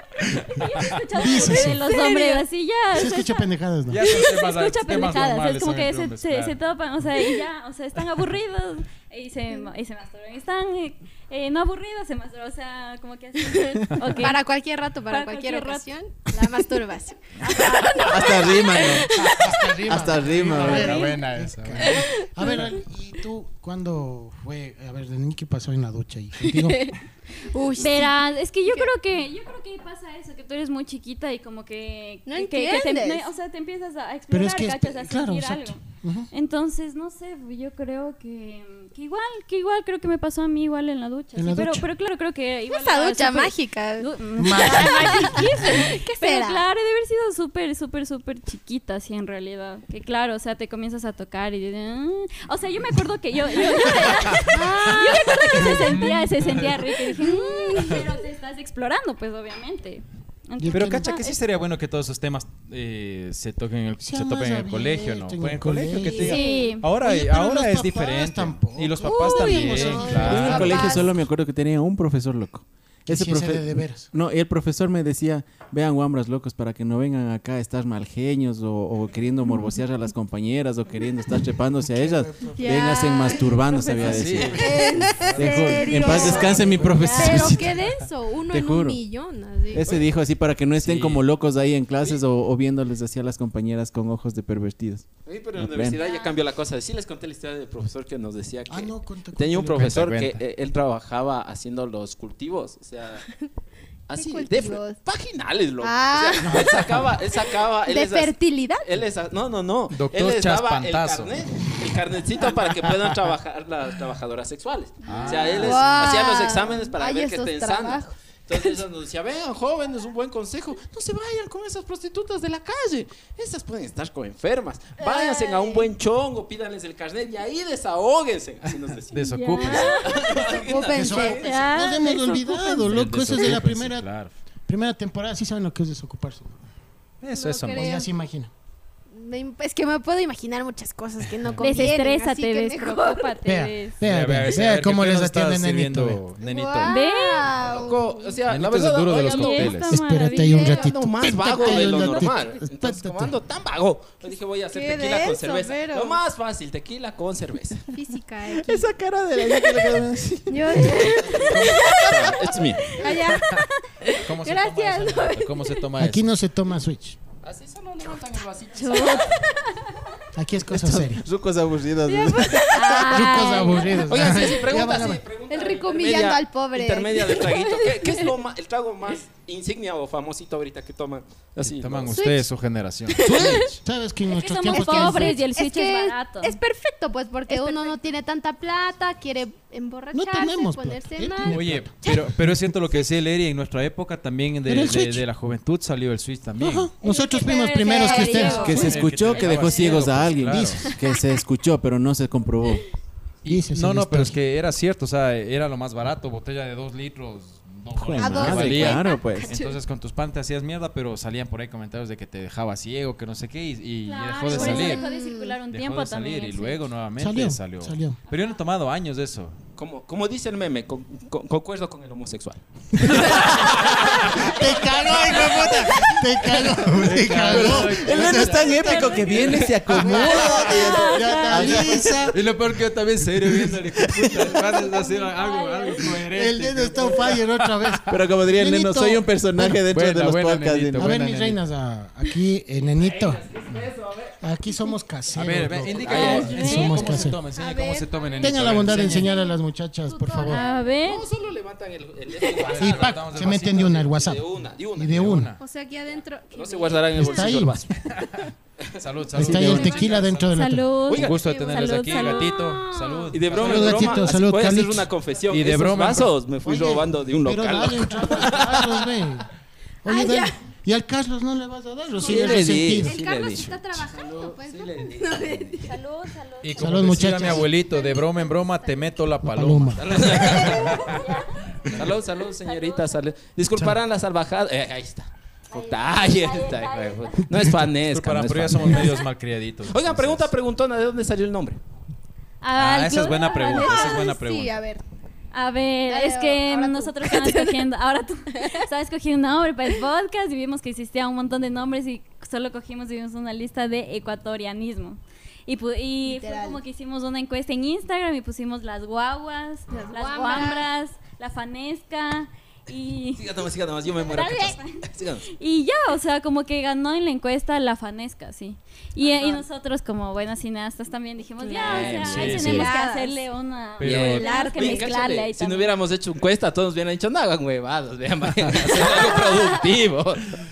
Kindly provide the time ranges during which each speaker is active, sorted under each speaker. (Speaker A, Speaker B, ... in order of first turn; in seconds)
Speaker A: 0.2-0.6, 3.9-6.6, 19.2-22.1, 54.1-54.5, 55.7-56.9, 60.7-70.9, 84.0-87.5, 90.8-91.2, 99.7-100.4, 109.9-111.3, 115.1-116.1, 129.1-130.1, 132.8-134.3, 137.2-137.9, 141.4-141.8, 144.0-147.0, 148.5-150.0, 161.5-161.9, 163.2-163.7, 164.2-166.2, 181.6-183.8, 191.4-196.9, 198.7-200.9, 203.4-215.1, 215.7-219.6, 223.2-224.5, 226.9-229.5, 231.6-238.2, 239.9-241.6, 245.3-249.3, 252.6-254.2, 255.1-255.6, 258.0-260.6, 261.1-264.2, 265.5-266.3, 276.6-281.2, 288.0-290.5, 292.7-294.8, 322.2-322.9, 324.0-324.5, 328.6-329.2
Speaker B: 0.5-3.5, 4.0-14.4, 15.1-15.9, 27.8-61.4, 66.0-66.8, 86.1-87.5, 96.0-96.4, 129.3-130.3, 131.4-132.8, 141.6-144.0, 146.8-147.5, 149.3-150.9, 172.7-174.0, 184.3-186.6, 187.5-188.0, 197.0-200.0, 214.1-216.8, 228.8-231.6, 234.7-236.1, 246.1-247.0, 250.5-251.2, 260.5-262.5, 275.9-278.3, 280.8-281.5, 282.6-283.2, 285.7-287.4, 292.6-294.2, 295.5-313.5, 314.3-325.9
Speaker C: 1.1-1.9, 2.9-4.0, 19.3-27.0, 34.3-36.3, 41.4-41.9, 44.4-45.4, 60.6-61.1, 64.0-66.4, 67.0-71.0, 73.1-74.1, 81.8-83.0, 98.7-99.9, 130.9-134.1, 134.7-136.6, 137.7-138.5, 143.4-146.2, 149.9-153.4, 166.0-167.2, 170.3-171.2, 173.1-175.2, 183.2-185.4, 190.1-192.7, 194.7-195.2, 196.6-199.0, 200.2-200.9, 203.5-204.4, 217.2-218.2, 223.1-228.8, 229.9-232.4, 233.5-234.5, 236.1-239.8, 240.9-243.4, 244.4-247.4, 248.4-250.6, 252.8-254.4, 254.9-255.5, 257.1-257.8, 259.3-260.9, 263.6-265.1, 266.6-269.5, 270.0-273.2, 276.8-277.7, 279.4-280.7
Speaker D: 1.3-2.5, 13.5-19.8, 21.8-22.8, 26.5-28.1, 32.3-33.3, 42.7-46.6, 54.5-55.8, 57.2-58.1, 66.0-66.8, 69.8-71.1, 82.6-89.8, 104.2-105.0, 105.8-107.0, 107.9-109.0, 115.1-118.8, 125.0-125.9, 129.6-132.9, 137.3-138.1, 139.1-143.4, 146.4-148.4, 149.4-149.7, 150.4-150.9, 151.6-152.1, 154.2-156.2, 157.9-158.9, 159.5-159.9, 160.5-165.9, 168.8-169.7, 172.1-174.6, 175.5-178.3, 182.1-182.5, 183.1-183.7, 184.7-192.1, 197.1-200.0, 200.8-201.3, 208.2-209.8, 214.5-215.6, 247.5-249.6, 250.1-250.9, 255.6-257.6, 259.4-260.1, 262.1-263.4, 270.1-270.6, 272.2-276.0, 278.1-278.5, 280.5-281.3, 293.2-295.0, 296.1-297.8, 298.5-298.9, 306.3-306.8, 309.9-310.9, 319.2-319.6, 321.6-323.4, 324.3-325.1, 329.2-329.9
Speaker E: 18.0-19.1, 19.9-21.0, 69.1-87.8, 88.5-89.0, 89.7-96.0, 158.5-160.9, 170.7-173.2, 198.6-202.9, 208.0-209.6, 225.2-225.8, 227.3-232.3, 238.1-241.1, 259.4-259.9
Speaker F: 89.8-90.0, 95.2-103.3, 104.1-108.3, 108.8-131.7, 147.6-149.7, 150.7-157.9, 160.8-163.0, 167.4-169.4, 173.9-182.2, 219.8-223.7, 242.9-244.4, 245.9-246.5, 251.0-255.2, 256.5-257.9, 261.1-261.4, 263.3-269.1, 272.2-275.9, 280.0-281.0, 281.9-289.2, 289.9-291.8, 313.4-315.4, 321.8-322.8, 324.0-330.6